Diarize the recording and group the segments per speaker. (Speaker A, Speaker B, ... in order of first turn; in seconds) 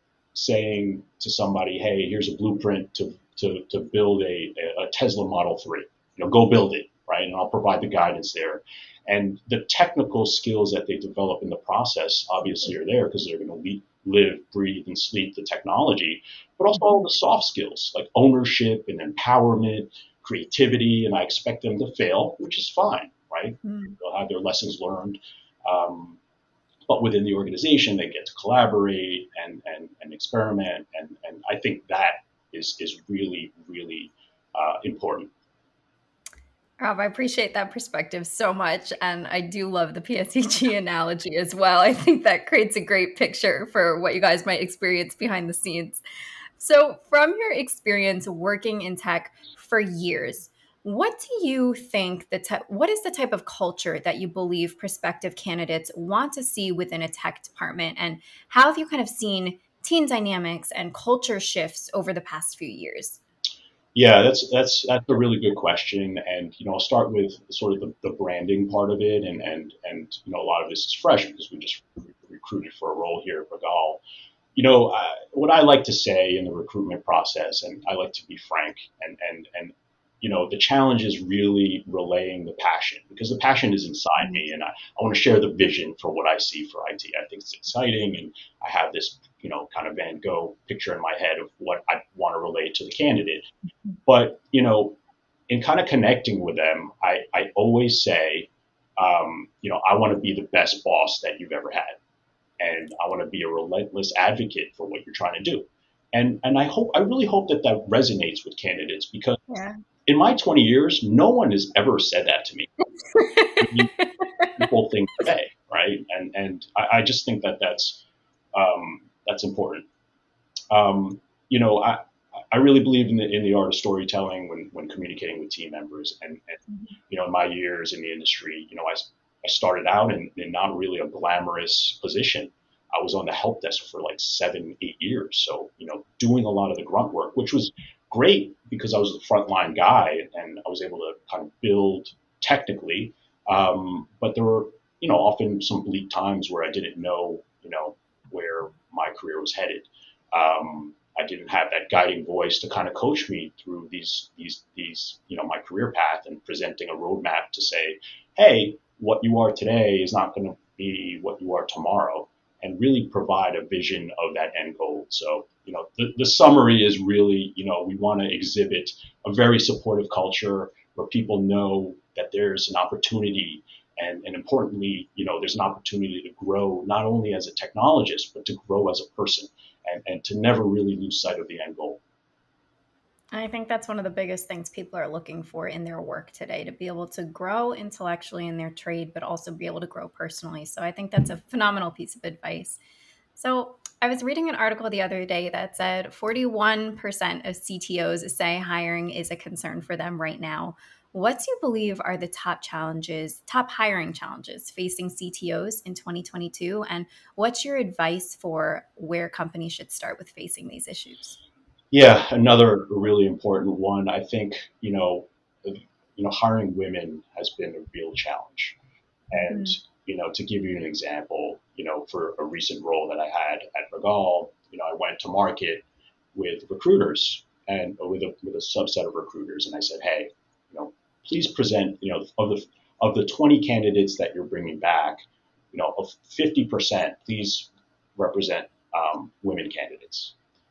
Speaker A: 0.3-26.2, 26.9-35.3, 64.0-74.0, 74.5-93.5, 94.1-102.0, 102.6-109.4, 110.1-112.7, 113.6-113.9, 114.6-119.9, 120.7-182.0, 211.9-218.8, 219.3-240.3
Speaker B: 23.6-23.9, 36.8-46.0, 46.6-63.2, 109.5-109.8, 113.1-114.5, 183.3-192.8, 193.4-211.4, 219.4-219.8